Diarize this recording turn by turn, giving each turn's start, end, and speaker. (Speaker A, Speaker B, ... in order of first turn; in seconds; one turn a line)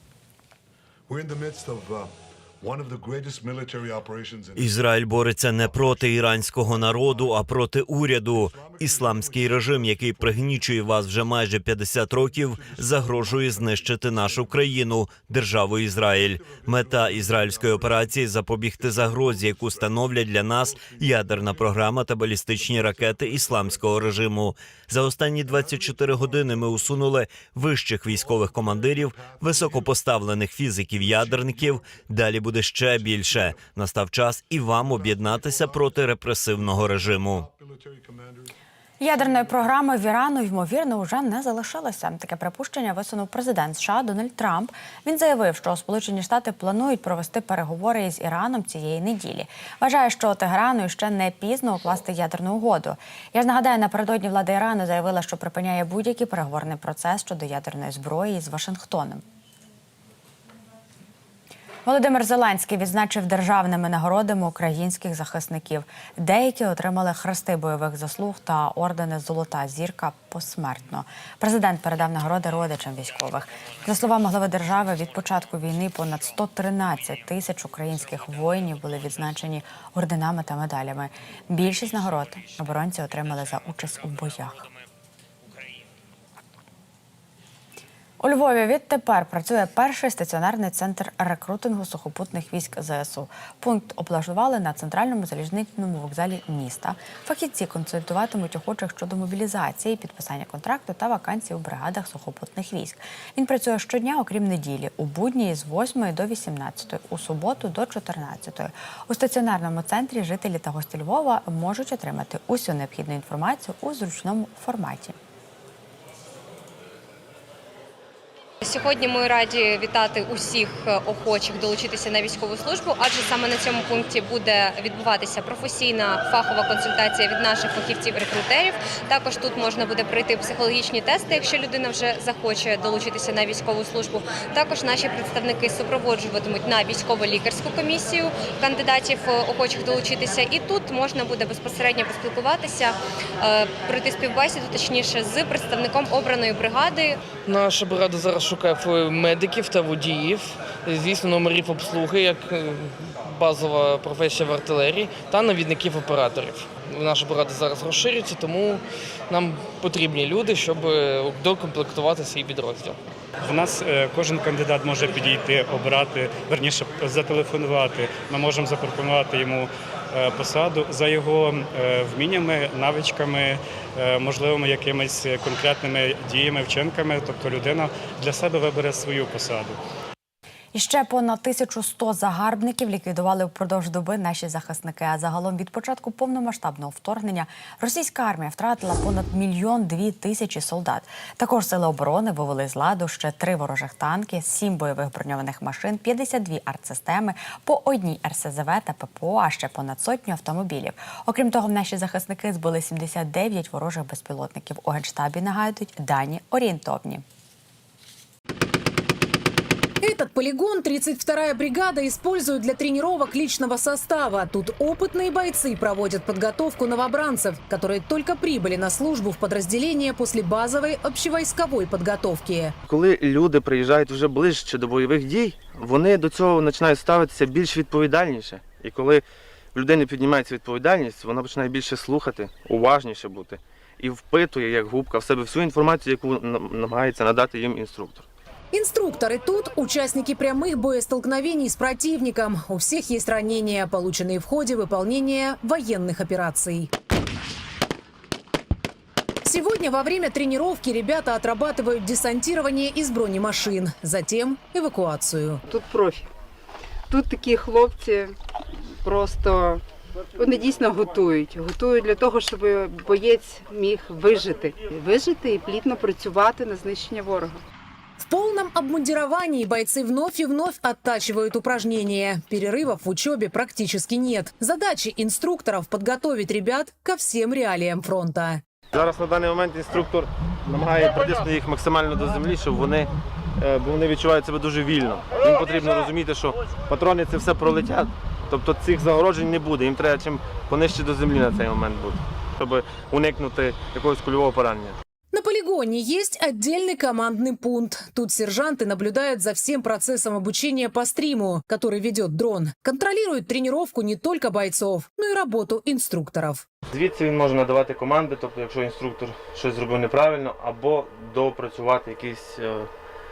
Speaker A: 1.1-4.8
Speaker B: 4.6-37.5
Speaker A: 5.6-6.1
Speaker A: 6.7-7.4
Speaker A: 8.4-10.7
Speaker A: 12.2-14.5
Speaker A: 16.4-18.1
Speaker A: 18.8-19.9
Speaker A: 20.7-21.7
Speaker A: 22.6-24.1
Speaker A: 25.5-26.9
Speaker A: 28.1-29.9
Speaker A: 31.0-31.8
Speaker A: 32.9-33.6
Speaker A: 34.8-35.9
Speaker A: 37.4-38.5
Speaker C: 39.0-59.2
Speaker C: 61.9-84.7
Speaker C: 88.2-115.2
Speaker D: 118.6-147.2
Speaker E: 147.5-162.9
Speaker F: 163.4-179.8
Speaker C: 180.7-207.2
Speaker G: 210.0-222.7
Speaker H: 222.9-238.3
Speaker G: 238.7-246.9
Speaker G: 249.4-255.6
Speaker I: 255.7-256.3
Speaker I: 257.1-258.3
Speaker I: 259.0-259.8
Speaker I: 260.4-267.6
Speaker G: 268.2-278.6
Speaker H: 278.9-295.0
Speaker G: 295.3-306.6
Speaker H: 306.9-312.9